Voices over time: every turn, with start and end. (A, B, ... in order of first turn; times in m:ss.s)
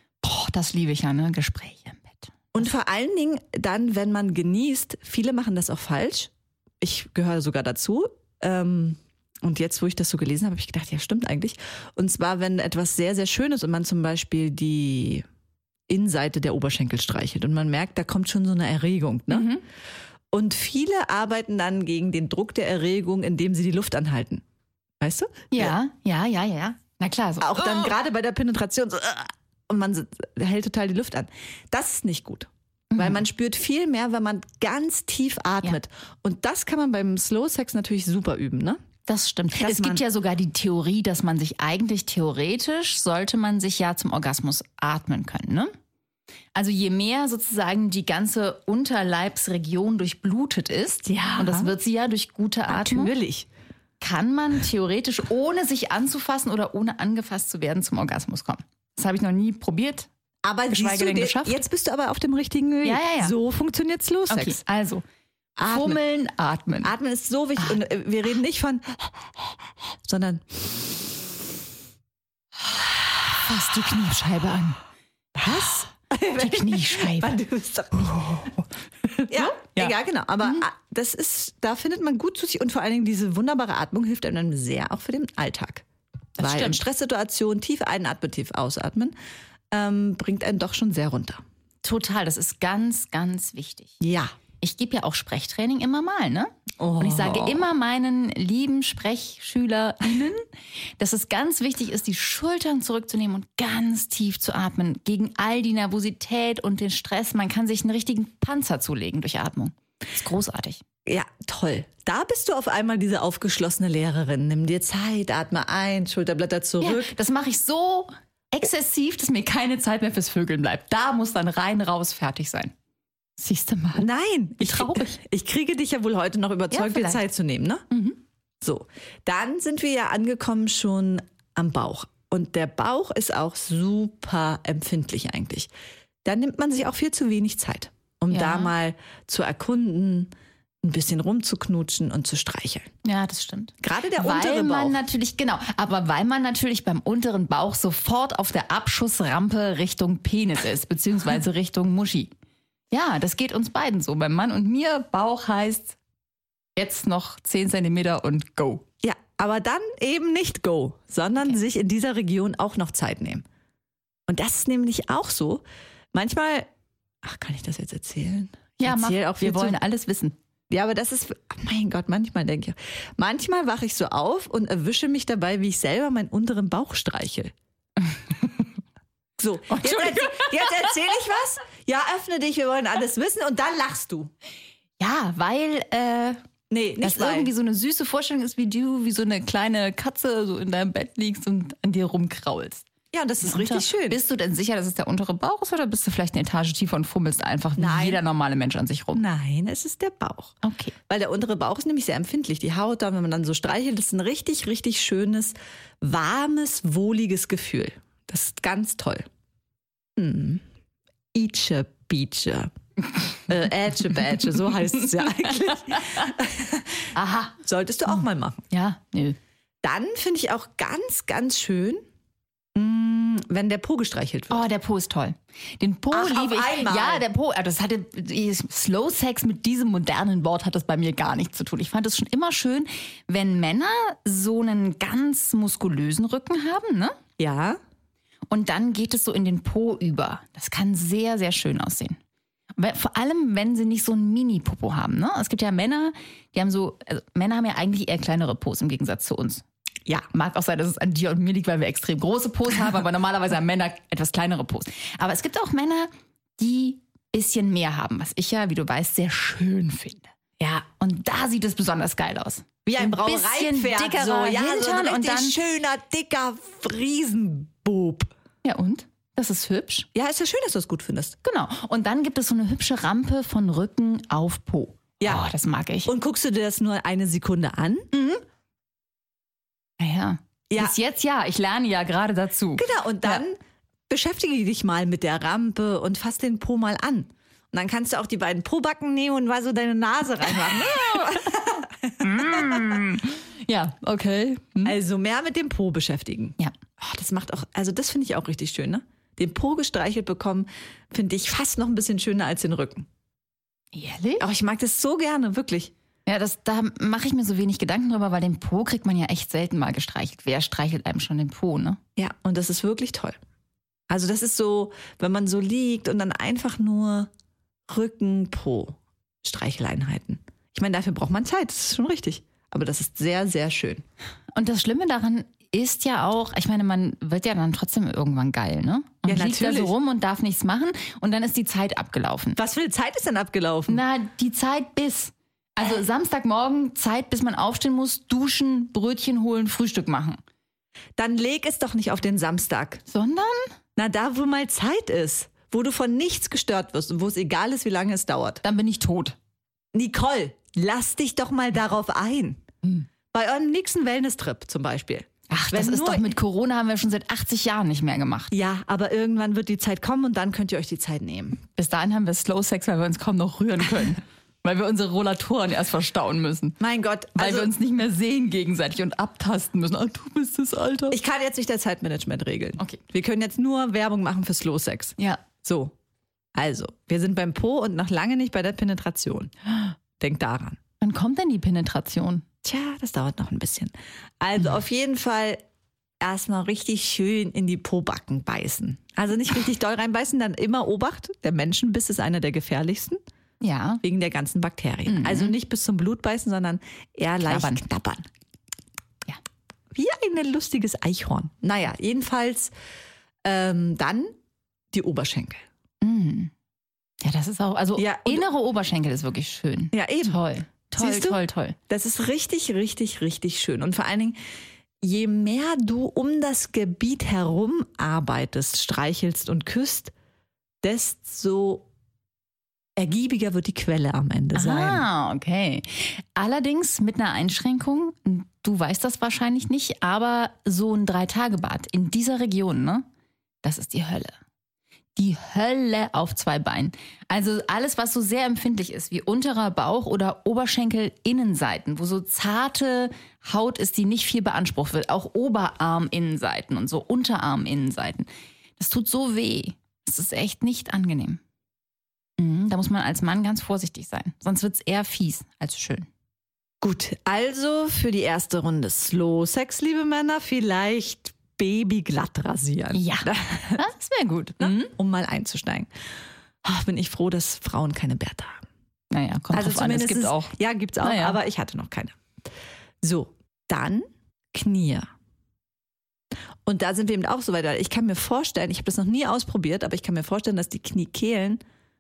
0:00.2-0:02.3 A
0:02.5-0:15.2 B
0:15.9-0:19.5 B
0:19.3-0:19.6 A
0:20.3-0:24.4 B
0:25.0-0:25.8 B
0:25.5-0:27.9 A
0:27.4-0:38.8 B
0:32.9-0:33.2 A
0:39.0-0:45.7 A
0:39.5-0:40.0 B
0:46.5-0:53.1 A
0:51.0-0:51.7 B
0:52.7-0:53.5 B
0:54.0-1:00.1 A
1:00.4-1:04.6 B
1:00.7-1:01.6 A
1:02.8-1:03.3 A
1:04.3-1:05.0 A
1:05.6-1:06.0 B
1:05.6-1:06.9 A
1:06.8-1:11.2 B
1:13.4-1:14.8 A
1:15.3-1:18.5 B
1:16.4-1:17.4 A
1:18.2-1:18.6 A
1:19.1-1:20.6 A
1:19.3-1:25.8 B
1:26.4-1:26.8 A
1:26.4-1:29.1 B
1:29.7-1:31.4 B
1:31.8-1:34.0 A
1:34.0-1:34.3 B
1:34.6-1:40.4 A
1:36.8-1:37.7 B
1:41.0-1:50.8 A
1:51.0-1:57.1 B
1:56.8-2:02.7 A
2:03.4-2:04.1 A
2:04.0-2:07.8 B
2:04.6-2:05.1 A
2:06.7-2:07.2 A
2:07.9-2:08.2 A
2:08.6-2:15.7 B
2:16.2-2:20.3 B
2:18.3-2:18.7 A
2:20.8-2:22.9 B
2:23.0-2:32.3 A
2:23.8-2:25.0 B
2:32.9-2:36.0 A
2:36.8-2:38.8 A
2:39.0-2:43.4 B
2:44.3-2:46.7 B
2:47.2-2:49.8 B
2:48.8-2:50.3 A
2:50.7-2:57.5 B
2:59.4-3:04.3 B
2:59.7-3:01.0 A
3:05.0-3:06.4 A
3:06.7-3:07.5 B
3:07.0-3:12.8 A
3:13.1-3:14.2 B
3:13.4-3:19.2 A
3:17.8-3:18.2 B
3:19.1-3:20.6 B
3:20.6-3:20.9 A
3:21.1-3:29.3 B
3:30.2-3:30.6 B
3:31.3-3:32.7 B
3:33.5-3:38.6 B
3:37.1-3:37.6 A
3:38.1-3:39.4 A
3:39.8-3:42.0 B
3:42.7-3:44.6 B
3:44.5-3:57.2 A
3:46.1-3:47.2 B
3:57.4-3:57.8 B
3:58.5-4:02.2 A
4:02.7-4:09.6 A
4:10.3-4:25.5 A
4:22.8-4:28.3 B
4:28.6-4:30.1 A
4:30.1-4:31.4 B
4:31.4-4:36.1 A
4:35.2-4:35.4 B
4:36.0-4:38.1 B
4:38.1-4:38.4 A
4:40.0-4:43.4 A
4:40.7-4:41.0 B
4:42.8-4:53.0 B
4:50.8-4:51.3 A
4:52.2-4:55.0 A
4:54.8-5:03.1 B
5:03.9-5:04.4 A
5:04.4-5:05.9 B
5:06.2-5:12.0 A
5:12.2-5:13.4 B
5:14.1-5:17.3 B
5:17.9-5:24.0 B
5:24.5-5:32.6 A
5:29.2-5:29.9 B
5:32.6-5:34.0 B
5:33.9-5:40.4 A
5:41.2-5:43.0 B
5:43.1-5:43.7 A
5:44.0-5:48.6 B
5:48.6-5:49.4 A
5:49.9-5:52.6 B
5:53.3-5:56.3 B
5:55.5-5:58.5 A
5:58.5-6:01.6 B
6:01.7-6:06.8 A
6:06.8-6:07.7 B
6:07.4-6:11.2 A
6:11.1-6:15.9 B
6:15.2-6:15.4 A
6:16.5-6:19.5 B
6:20.2-6:20.8 B
6:21.0-6:22.4 A
6:22.6-6:25.6 B
6:26.2-6:33.2 B
6:33.6-6:34.0 A
6:34.0-6:38.2 B
6:35.0-6:35.5 A
6:37.4-6:37.8 A
6:39.9-6:42.7 B
6:43.4-6:44.3 B
6:44.9-6:45.6 B
6:46.0-6:46.5 A
6:47.2-6:51.8 A
6:48.0-6:48.4 B
6:49.9-6:50.4 B
6:50.9-6:54.4 B
6:55.0-7:00.1 B
7:00.8-7:01.9 B
7:03.0-7:05.0 B
7:04.5-7:13.0 A
7:13.6-7:14.4 A
7:15.2-7:31.4 A
7:32.4-7:36.1 A
7:36.8-7:43.8 B
7:42.9-7:44.9 A
7:44.6-7:45.9 B
7:46.6-7:48.6 B
7:49.1-7:51.4 A
7:49.5-7:52.2 B
7:53.0-7:55.1 B
7:56.6-8:01.6 B